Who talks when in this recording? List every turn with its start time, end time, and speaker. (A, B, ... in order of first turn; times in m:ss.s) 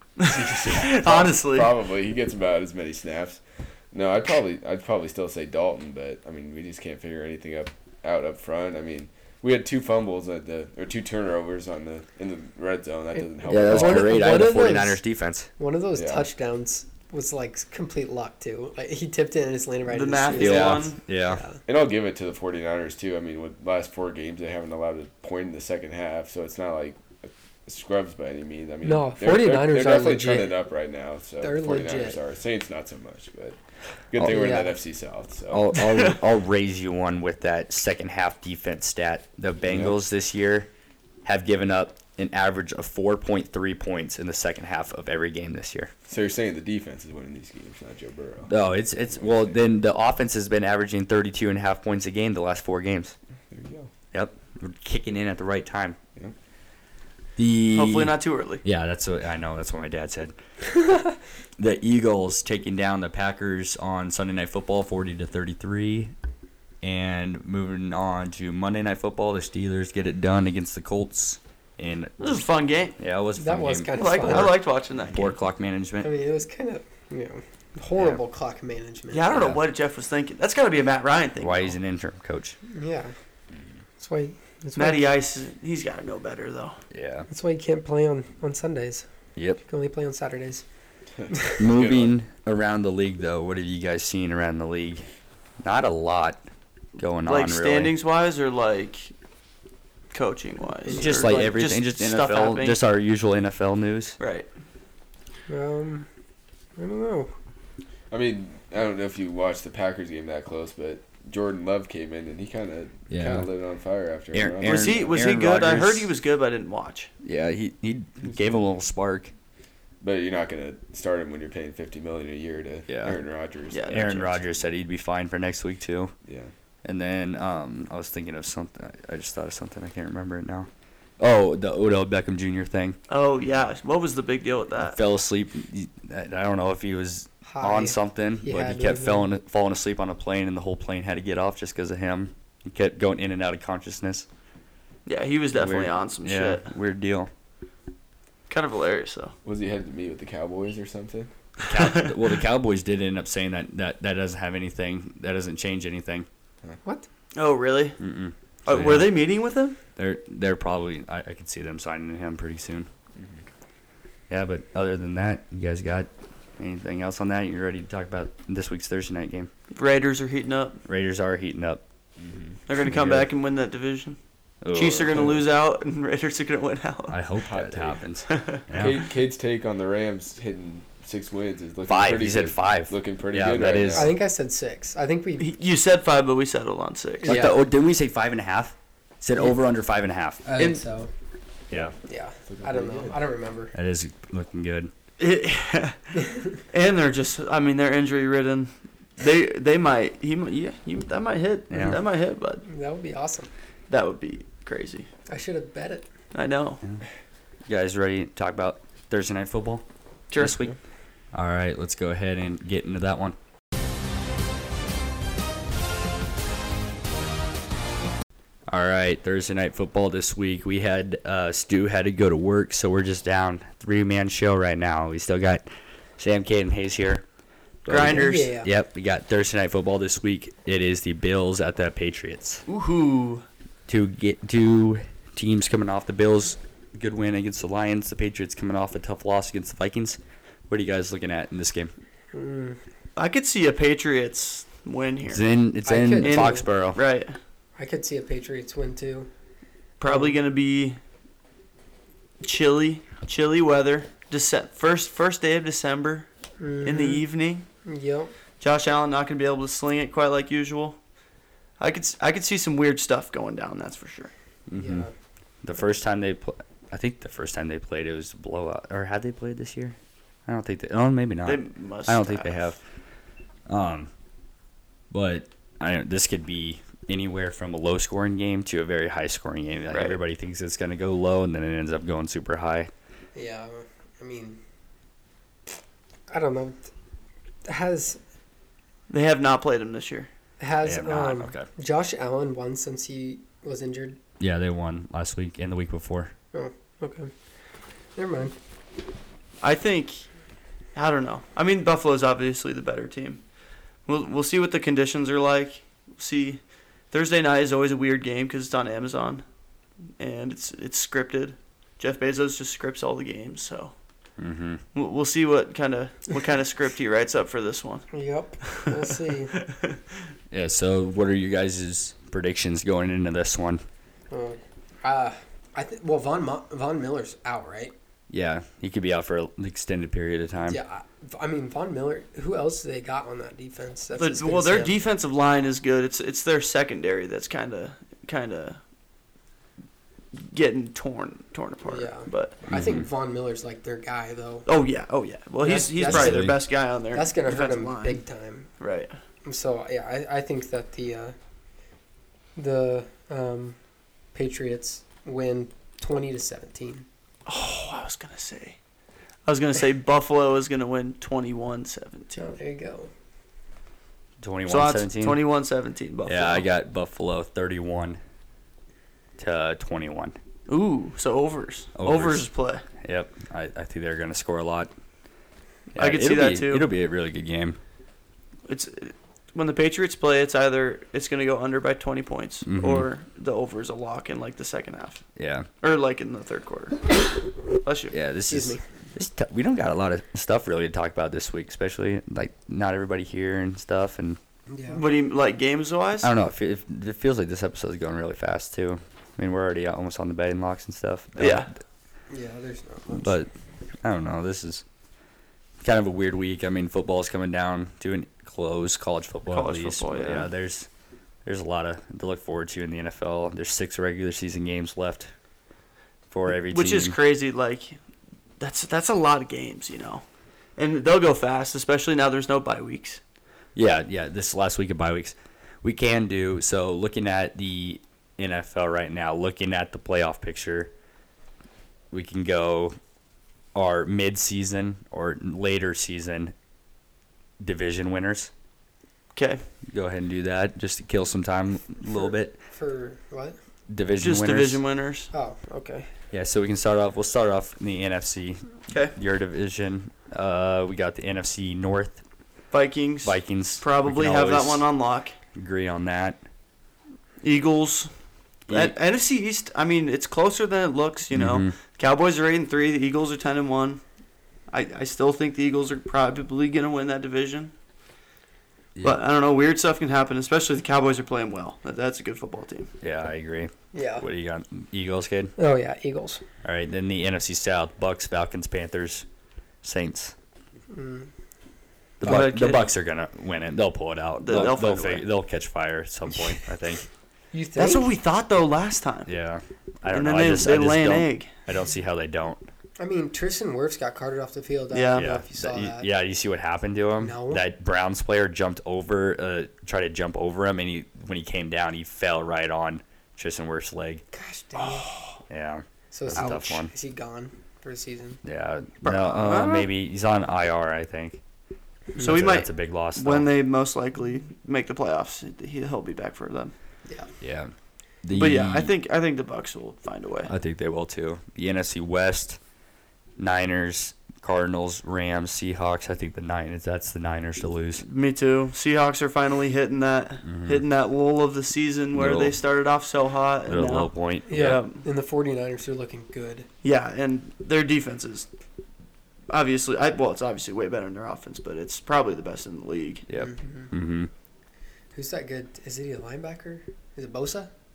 0:00.2-0:01.7 A
0:00.2-0:14.4 B
0:13.5-0:15.5 C
0:13.5-0:15.0 D
0:15.6-0:21.6 D
0:15.9-0:16.3 B
0:19.9-0:21.0 A
0:20.3-0:21.4 C
0:21.6-0:33.6 B
0:28.8-0:30.5 D
0:31.4-0:32.2 D
0:34.1-0:35.8 B
0:34.2-0:34.8 D
0:35.5-0:40.7 C
0:35.8-0:36.1 A
0:39.6-0:40.0 B
0:41.2-0:45.9 C
0:46.1-0:48.6 B
0:48.5-0:53.2 C
0:49.1-0:49.6 B
0:53.5-0:53.9 B
0:54.1-0:56.0 C
0:57.4-1:00.3 C
0:57.7-0:58.6 A
1:01.6-1:06.1 C
1:06.8-1:12.4 C
1:12.2-1:13.0 A
1:13.0-1:16.1 C
1:13.4-1:14.5 D
1:14.0-1:15.3 A
1:16.0-1:19.3 D
1:19.1-1:21.7 A
1:19.3-1:19.6 C
1:21.4-1:22.6 C
1:22.7-1:23.1 D
1:24.0-1:25.0 D
1:24.8-1:26.8 A
1:26.9-1:27.3 C
1:27.3-1:29.1 D
1:29.4-1:29.6 C
1:29.7-1:30.6 D
1:31.2-1:32.2 B
1:31.6-1:35.1 C
1:35.6-1:36.4 C
1:37.0-1:37.9 C
1:37.2-1:39.1 A
1:40.1-1:42.8 A
1:40.8-1:41.6 D
1:40.9-1:44.2 C
1:44.2-1:44.5 A
1:45.5-1:46.1 D
1:46.8-1:47.3 D
1:48.1-1:55.2 B
1:53.1-1:53.5 C
1:54.3-1:56.1 C
1:54.6-1:57.1 A
1:57.2-1:59.3 C
2:00.0-2:04.3 B
2:02.9-2:03.2 C
2:03.7-2:04.4 A
2:03.9-2:06.1 C
2:06.2-2:06.5 B
2:06.8-2:13.0 C
2:13.1-2:15.0 A
2:14.8-2:24.3 C
2:17.4-2:19.3 D
2:25.0-2:26.7 A
2:25.5-2:27.3 C
2:28.5-2:29.3 A
2:29.4-2:31.3 B
2:31.7-2:36.3 C
2:31.7-2:32.3 A
2:37.3-2:38.0 A
2:38.0-2:39.2 C
2:38.6-2:39.8 A
2:40.0-2:42.9 C
2:43.2-2:43.4 B
2:44.3-2:49.5 C
2:49.7-2:50.8 A
2:50.9-2:51.8 C
2:52.2-2:52.5 B
2:52.7-2:54.2 A
2:52.9-2:53.3 C
2:54.6-2:55.4 C
2:54.7-2:57.2 A
2:57.1-2:59.0 C
2:57.4-2:58.0 B
2:58.3-2:58.6 A
2:58.7-3:04.1 B
3:01.9-3:04.1 C
3:04.0-3:05.5 D
3:05.4-3:07.4 A
3:07.2-3:07.6 D
3:07.2-3:10.4 C
3:10.4-3:11.1 D
3:12.0-3:13.7 D
3:12.5-3:13.2 B
3:13.7-3:14.9 C
3:15.2-3:22.6 A
3:21.7-3:22.0 C
3:22.6-3:23.5 D
3:23.9-3:25.1 A
3:25.3-3:26.1 D
3:26.3-3:26.8 A
3:27.7-3:29.8 C
3:30.3-3:30.6 A
3:30.4-3:30.7 C
3:31.3-3:33.4 C
3:38.7-3:45.6 C
3:46.2-3:47.2 C
3:47.8-3:52.6 C
3:47.8-3:48.5 A
3:48.0-3:48.7 D
3:52.7-3:53.4 A
3:53.9-4:01.9 C
4:02.3-4:02.8 D
4:03.2-4:05.4 A
4:05.3-4:07.0 C
4:05.8-4:06.6 D
4:06.2-4:07.4 A
4:07.8-4:09.3 D
4:10.0-4:11.0 A
4:10.0-4:10.4 D
4:12.4-4:16.3 A
4:16.6-4:17.2 D
4:16.8-4:17.6 A
4:17.8-4:18.3 D
4:18.6-4:21.0 A
4:21.8-4:24.3 A
4:24.7-4:25.1 C
4:24.8-4:25.1 D
4:25.6-4:32.8 C
4:31.4-4:32.6 A
4:33.7-4:34.1 C
4:35.1-4:42.9 C
4:39.9-4:40.2 A
4:43.3-4:44.6 D
4:46.3-4:46.9 D
4:47.6-4:48.2 D
4:49.1-4:50.3 A
4:50.6-4:54.2 D
4:50.8-4:51.7 C
4:54.4-4:56.3 C
4:56.5-4:57.3 D
4:58.2-4:58.5 D
4:59.6-5:00.3 A
5:00.9-5:03.4 A
5:04.0-5:09.4 A
5:10.2-5:13.9 A
5:14.4-5:14.8 C
5:14.9-5:18.0 A
5:18.1-5:19.5 D
5:18.6-5:19.0 A
5:19.5-5:20.0 A
5:20.5-5:23.8 C
5:24.3-5:27.9 D
5:28.3-5:30.8 C
5:30.7-5:34.9 D
5:34.2-5:38.8 A
5:40.3-5:42.6 A
5:41.8-5:44.7 D
5:42.7-5:43.0 C
5:44.6-5:48.2 A
5:45.6-5:46.5 D
5:46.0-5:46.6 C
5:47.1-5:48.7 D
5:48.8-5:49.1 A
5:49.4-5:51.3 D
5:52.6-5:53.8 D
5:54.3-5:57.0 D
5:57.4-5:58.8 A
5:59.4-6:02.4 A
6:02.3-6:03.1 D
6:04.4-6:05.4 C
6:04.7-6:06.6 A
6:06.2-6:08.2 C
6:09.4-6:10.4 C
6:10.7-6:12.8 A
6:12.0-6:12.4 C
6:13.0-6:14.9 C
6:16.0-6:17.8 C
6:16.0-6:16.9 A
6:18.7-6:25.3 A
6:22.6-6:23.1 C
6:25.4-6:25.7 C
6:25.8-6:28.1 A
6:28.1-6:34.4 C
6:28.5-6:28.8 D
6:34.7-6:35.0 D
6:34.9-6:36.3 A
6:36.2-6:41.7 C
6:41.4-6:41.7 A
6:42.3-6:43.4 D
6:43.1-6:43.5 C
6:44.0-6:44.8 C
6:45.8-6:50.9 C
6:49.5-6:50.5 A
6:51.4-6:55.3 C
6:56.3-6:57.2 C
6:56.5-6:58.0 A
6:58.6-7:00.2 A
7:00.8-7:03.2 A
7:03.7-7:10.9 C
7:12.1-7:13.0 C
7:13.7-7:16.5 C
7:17.6-7:18.5 C
7:19.3-7:19.6 A
7:19.9-7:22.6 C
7:22.1-7:23.6 D
7:23.9-7:24.8 C
7:24.2-7:25.3 A
7:25.3-7:26.1 D
7:26.3-7:32.2 C
7:28.9-7:29.1 A
7:32.7-7:35.3 A
7:33.2-7:34.9 C
7:35.5-7:36.4 C
7:37.4-7:38.1 A
7:38.7-7:38.9 C
7:38.7-7:44.0 A
7:41.3-7:41.7 C
7:44.7-7:47.7 A
7:49.0-7:52.9 A
7:53.0-7:55.5 C
7:53.9-7:54.2 D
7:55.6-7:56.4 D
7:56.6-7:59.2 C
7:59.8-8:00.3 C
8:00.9-8:01.3 D
8:02.2-8:07.1 C
8:02.2-8:02.9 A
8:04.4-8:05.3 A
8:07.5-8:08.1 D
8:07.8-8:09.3 A
8:09.3-8:12.7 C
8:10.1-8:11.5 A
8:13.0-8:16.1 D
8:14.9-8:15.3 A
8:15.1-8:24.2 C
8:17.2-8:17.6 D
8:24.3-8:25.1 D
8:24.8-8:25.4 A
8:25.5-8:26.9 C
8:26.1-8:28.4 D
8:28.4-8:31.4 C
8:29.0-8:29.9 A
8:32.2-8:33.5 C
8:32.2-8:36.7 A
8:37.4-8:38.9 C
8:38.3-8:40.5 A
8:40.5-8:42.6 C
8:43.4-8:48.0 C
8:48.0-8:55.0 A
8:50.4-8:50.8 C
8:52.1-8:52.6 C
8:53.7-8:54.8 C
8:54.5-8:56.7 D
8:56.8-8:58.5 A
8:59.5-9:03.2 A
9:03.3-9:04.3 C
9:03.3-9:03.9 D
9:05.1-9:07.7 D